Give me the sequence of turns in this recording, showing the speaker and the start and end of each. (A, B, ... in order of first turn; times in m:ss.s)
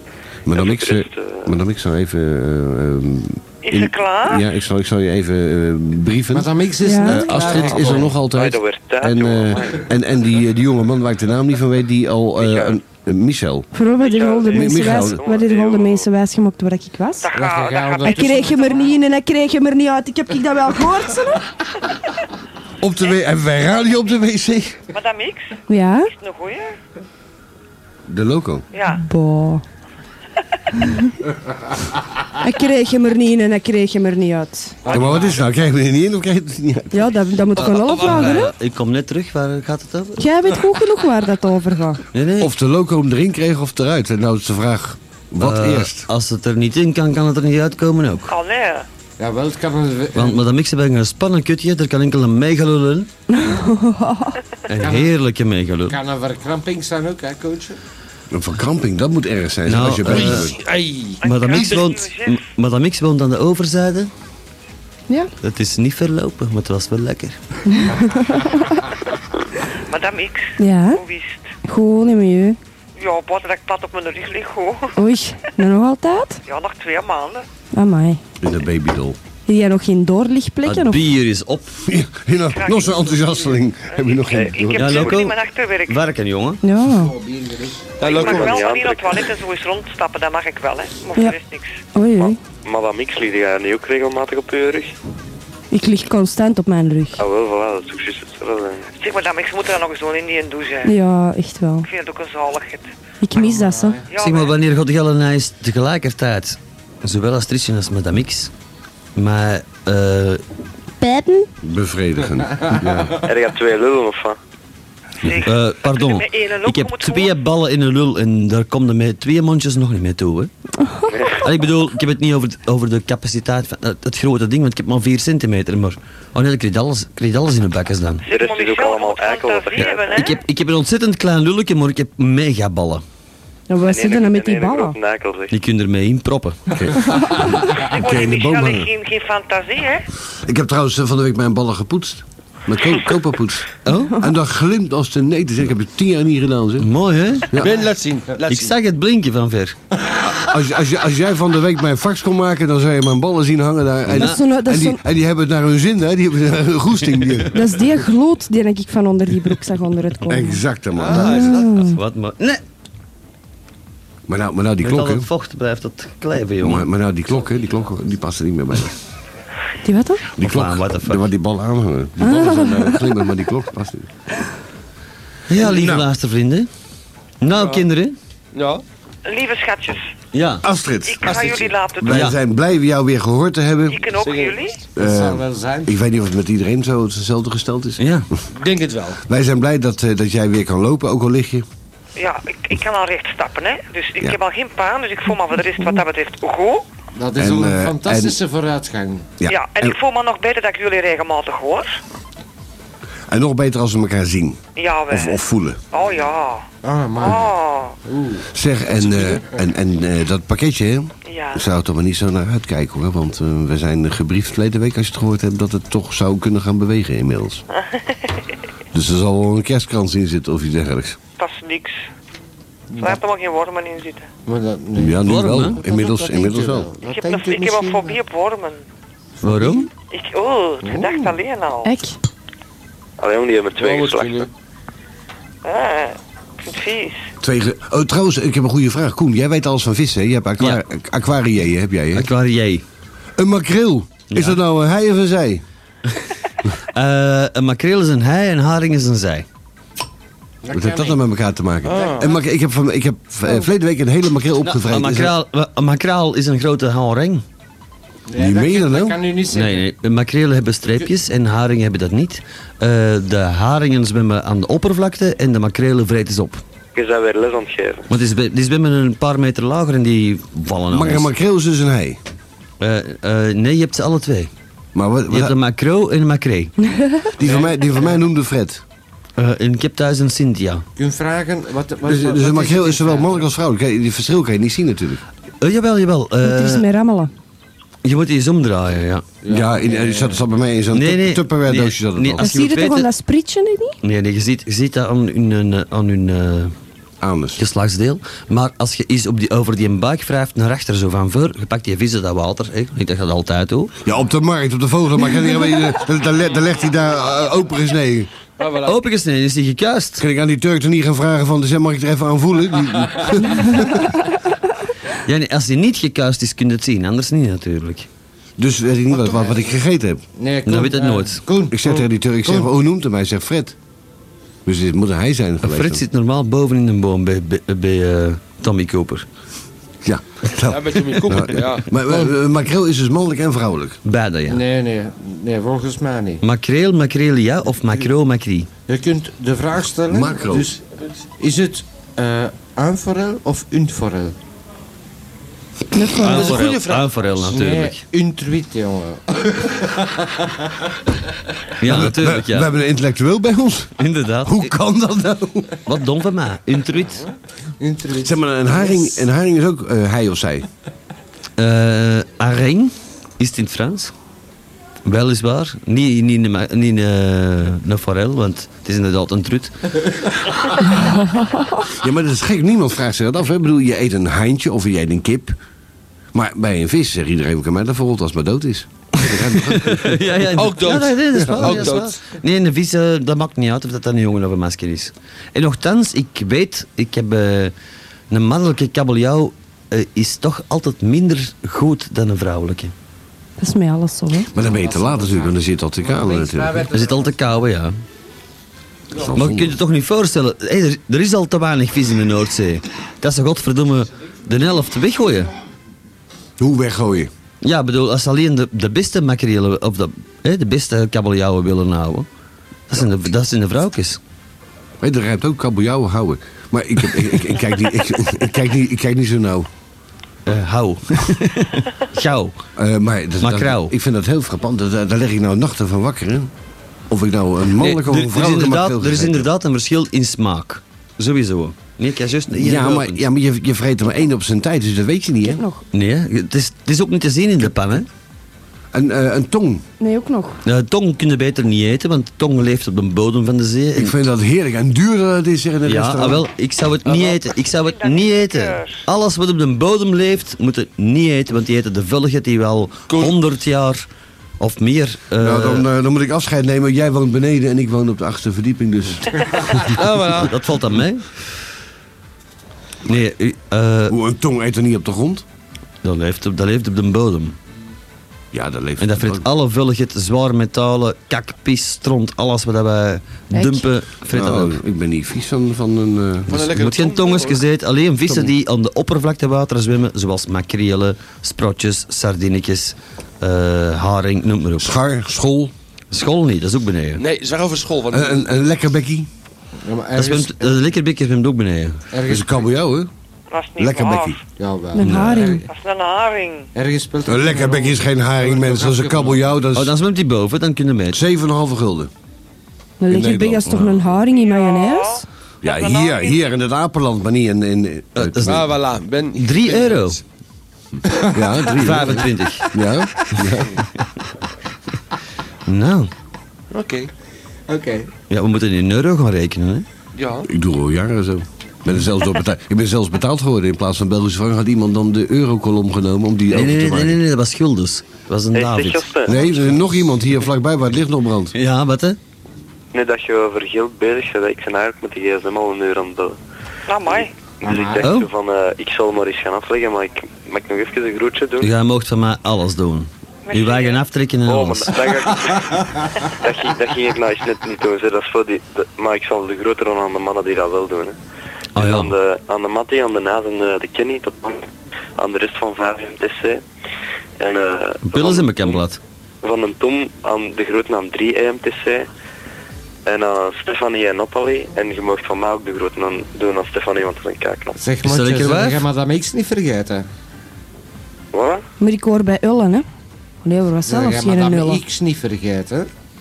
0:00.5-0:13.7 A
0:00.5-0:01.5 B
0:03.6-0:04.4 C
0:06.3-0:08.2 D
0:06.8-0:07.2 E
0:07.4-0:09.8 B
0:12.4-0:12.8 B
0:13.7-0:17.3 E
0:14.0-0:16.1 B
0:14.5-0:15.2 A
0:17.2-0:18.9 C
0:17.3-0:18.9 D
0:18.0-0:21.5 E
0:22.8-0:24.8 A
0:24.9-0:25.5 C
0:25.7-0:26.1 E
0:26.1-0:26.8 C
0:28.1-0:28.7 A
0:28.7-0:29.0 C
0:28.9-0:29.6 E
0:30.8-0:31.1 E
0:32.4-0:34.9 E
0:34.8-0:35.4 D
0:34.9-0:35.3 F
0:34.9-0:37.2 A
0:36.9-0:38.5 E
0:37.6-0:40.3 G
0:37.6-0:38.5 F
0:40.2-0:42.0 E
0:42.1-0:42.5 G
0:42.4-0:46.1 A
0:45.4-0:48.3 G
0:48.3-0:48.9 C
0:49.2-0:50.4 D
0:50.1-0:53.1 G
0:53.3-0:54.4 E
0:54.7-0:56.0 G
0:54.8-0:55.1 D
0:55.9-0:57.8 D
0:58.3-1:00.6 A
0:59.7-1:00.5 G
1:00.0-1:01.6 F
1:01.2-1:02.4 C
1:01.2-1:04.1 G
1:05.4-1:07.4 G
1:07.7-1:08.7 E
1:09.9-1:11.5 C
1:10.6-1:11.0 E
1:11.6-1:12.6 E
1:13.0-1:15.5 C
1:15.0-1:16.4 E
1:16.5-1:17.5 C
1:17.7-1:18.2 E
1:18.4-1:19.2 A
1:19.5-1:21.1 E
1:20.6-1:21.8 G
1:21.9-1:25.1 A
1:22.5-1:23.4 C
1:23.9-1:26.0 C
1:24.3-1:25.2 B
1:24.8-1:26.6 G
1:26.6-1:27.2 E
1:26.9-1:28.0 D
1:28.0-1:28.6 F
1:28.0-1:31.8 C
1:28.1-1:29.3 B
1:31.9-1:32.4 E
1:32.2-1:35.0 B
1:35.7-1:37.2 E
1:37.2-1:39.0 B
1:39.0-1:40.9 C
1:40.8-1:41.9 E
1:41.8-1:42.9 C
1:43.2-1:44.0 E
1:43.3-1:44.1 D
1:44.1-1:44.5 C
1:44.2-1:48.5 G
1:49.2-1:50.4 G
1:51.0-1:51.5 E
1:51.6-1:53.2 A
1:53.2-1:54.4 B
1:55.2-1:57.3 C
1:55.4-2:00.5 G
2:00.8-2:01.2 E
2:01.1-2:01.4 B
2:01.3-2:08.2 G
2:08.2-2:10.3 C
2:08.3-2:10.3 B
2:10.1-2:13.0 G
2:13.7-2:15.0 E
2:13.8-2:15.5 B
2:15.5-2:16.6 G
2:16.8-2:18.9 A
2:17.8-2:20.1 C
2:20.5-2:26.9 A
2:23.8-2:24.2 G
2:26.8-2:27.5 G
2:27.6-2:28.8 F
2:28.5-2:29.8 G
2:30.3-2:37.7 A
2:34.1-2:34.4 G
2:34.1-2:35.0 E
2:37.5-2:40.6 E
2:40.3-2:41.6 A
2:40.9-2:41.9 F
2:41.1-2:42.0 E
2:41.8-2:42.6 G
2:44.3-2:45.3 A
2:44.8-2:46.9 G
2:46.6-2:49.0 A
2:49.8-2:50.3 E
2:50.4-2:54.1 A
2:50.4-2:51.3 G
2:52.2-2:53.0 E
2:55.5-2:56.7 G
2:55.6-2:56.0 A
2:57.4-2:58.2 G
2:57.6-2:57.8 F
2:58.5-2:58.8 F
2:59.3-3:00.0 C
3:00.3-3:00.6 G
3:00.6-3:01.4 A
3:01.1-3:02.3 C
3:01.2-3:01.8 F
3:02.0-3:04.0 A
3:02.0-3:02.4 G
3:03.9-3:04.8 C
3:04.1-3:04.7 F
3:05.0-3:06.0 D
3:05.0-3:08.0 A
3:08.0-3:08.3 G
3:08.5-3:09.2 F
3:09.3-3:11.6 A
3:12.2-3:16.8 C
3:17.2-3:19.3 D
3:17.4-3:18.4 A
3:19.4-3:20.0 A
3:19.5-3:22.0 C
3:23.3-3:25.8 A
3:24.8-3:25.4 C
3:25.9-3:26.6 C
3:26.8-3:27.5 D
3:27.2-3:28.0 C
3:28.0-3:28.5 D
3:28.5-3:37.6 A
3:29.0-3:29.6 D
3:31.3-3:31.6 C
3:38.9-3:41.2 A
3:41.4-3:42.0 C
3:42.9-3:43.2 D
3:43.0-3:44.3 C
3:44.5-3:48.2 D
3:45.0-3:46.9 A
3:45.2-3:45.8 G
3:47.0-3:48.8 C
3:49.4-3:49.9 G
3:49.4-3:49.8 D
3:50.1-3:51.9 C
3:50.8-3:51.3 D
3:51.8-3:52.2 E
3:53.2-3:54.5 B
3:53.8-3:54.5 F
3:55.6-3:57.2 C
3:57.4-4:02.3 A
4:02.1-4:02.8 G
4:03.4-4:05.6 A
4:04.3-4:04.6 G
4:06.9-4:09.5 G
4:10.6-4:11.2 D
4:10.7-4:15.3 A
4:11.8-4:12.4 F
4:11.9-4:12.4 D
4:14.6-4:17.4 G
4:18.3-4:19.9 D
4:18.4-4:19.2 A
4:19.5-4:26.6 G
4:27.0-4:28.1 B
4:28.1-4:31.3 G
4:30.9-4:32.2 A
4:32.8-4:34.5 G
4:35.0-4:35.6 A
4:35.3-4:36.7 G
4:36.8-4:37.3 E
4:37.4-4:38.8 A
4:37.4-4:38.2 D
4:39.4-4:40.8 G
4:41.0-4:43.4 D
4:42.0-4:45.2 A
4:45.6-4:46.9 G
4:46.4-4:47.3 E
4:48.0-4:49.2 G
4:49.4-4:50.4 D
4:49.5-4:52.6 A
4:50.9-4:53.1 G
4:52.4-4:54.0 E
4:54.0-4:56.7 G
4:57.2-4:57.6 A
4:57.6-5:03.9 G
5:04.0-5:08.3 A
5:08.6-5:09.0 F
5:08.8-5:10.2 G
5:10.2-5:14.2 A
5:15.2-5:18.1 G
5:18.6-5:20.2 A
5:19.1-5:19.7 D
5:20.4-5:22.7 D
5:20.7-5:21.4 G
5:21.7-5:23.8 A
5:24.7-5:26.0 A
5:25.6-5:29.3 G
5:30.0-5:34.0 A
5:30.6-5:31.9 F
5:32.1-5:32.3 D
5:34.0-5:34.6 G
5:34.5-5:36.4 D
5:36.4-5:38.7 G
5:38.9-5:40.8 D
5:40.1-5:40.7 A
5:41.4-5:44.4 D
5:45.9-5:46.6 E
5:46.1-5:47.6 F
5:46.2-5:48.0 G
5:47.5-5:50.7 D
5:51.8-5:52.7 G
5:51.8-5:55.8 A
5:54.0-5:54.7 G
5:55.9-5:57.2 G
5:57.8-5:59.3 D
5:58.2-6:00.7 A
6:01.6-6:04.1 G
6:05.0-6:09.8 G
6:11.9-6:15.6 A
6:16.3-6:20.2 A
6:19.3-6:27.7 G
6:20.5-6:22.2 F
6:21.5-6:21.9 A
6:28.3-6:32.9 G
6:33.6-6:34.5 E
6:34.5-6:36.9 A
6:34.6-6:37.4 D
6:36.9-6:38.0 G
6:39.1-6:39.8 A
6:39.3-6:45.5 G
6:46.6-6:47.3 A
6:47.6-6:52.3 G
6:52.9-6:54.2 G
6:55.0-6:59.7 A
7:00.5-7:02.6 G
7:02.8-7:06.5 A
7:03.4-7:04.0 G
7:07.1-7:09.5 A
7:07.8-7:13.2 G
7:12.5-7:15.6 A
7:15.4-7:15.8 E
7:15.9-7:18.1 G
7:18.9-7:19.8 A
7:20.0-7:20.6 E
7:20.6-7:24.2 G
7:24.0-7:26.4 A
7:25.9-7:34.0 G
7:27.1-7:27.3 F
7:27.6-7:29.0 C
7:33.1-7:33.4 F
7:34.6-7:35.9 G
7:35.4-7:40.0 A
7:39.9-7:40.6 F
7:40.4-7:41.6 G
7:43.1-7:44.2 G
7:44.1-7:45.4 A
7:46.0-7:47.6 G
7:48.5-7:49.5 A
7:49.0-7:54.8 G
7:53.5-7:53.9 E
7:54.3-7:56.7 A
7:56.5-7:57.6 F
7:56.7-8:05.0 G
8:04.8-8:05.7 A
8:06.1-8:07.2 G
8:07.2-8:08.5 F
8:08.1-8:09.3 A
8:09.8-8:10.8 D
8:10.2-8:12.0 G
8:12.1-8:12.7 D
8:12.3-8:13.1 A
8:13.5-8:14.4 C
8:13.8-8:14.4 A
8:14.6-8:15.7 D
8:14.9-8:15.6 E
8:15.0-8:15.4 G
8:15.6-8:16.7 C
8:16.8-8:19.6 D
8:17.2-8:19.9 A
8:19.7-8:21.2 G
8:21.1-8:22.1 A
8:23.0-8:25.2 E
8:23.1-8:24.0 A
8:24.3-8:26.4 C
8:25.6-8:28.7 A
8:28.2-8:28.7 G
8:28.4-8:30.2 F
8:29.4-8:30.2 G
8:31.1-8:31.4 D
8:31.3-8:33.8 A
8:31.8-8:32.7 G
8:35.7-8:36.1 G
8:36.7-8:37.1 F
8:37.7-8:38.1 D
8:38.3-8:39.9 G
8:40.2-8:40.5 F
8:40.5-8:47.2 A
8:46.5-8:49.7 G
8:48.5-8:49.4 B
8:49.3-8:51.6 A
8:51.6-8:52.2 G
8:52.9-8:56.4 B
8:56.9-8:57.3 C
8:57.0-9:01.7 B
8:57.6-8:58.0 D
8:58.0-8:58.3 G
9:01.6-9:05.0 G
9:03.5-9:04.0 C
9:04.5-9:11.2 B
9:11.8-9:12.1 G
9:11.8-9:16.6 B
9:17.4-9:18.8 B
9:18.0-9:19.0 G
9:19.4-9:22.1 B
9:23.1-9:27.8 B
9:27.8-9:30.0 D
9:28.0-9:28.8 G
9:31.3-9:31.6 B
9:31.8-9:32.9 E
9:33.4-9:34.8 E
9:33.8-9:35.9 D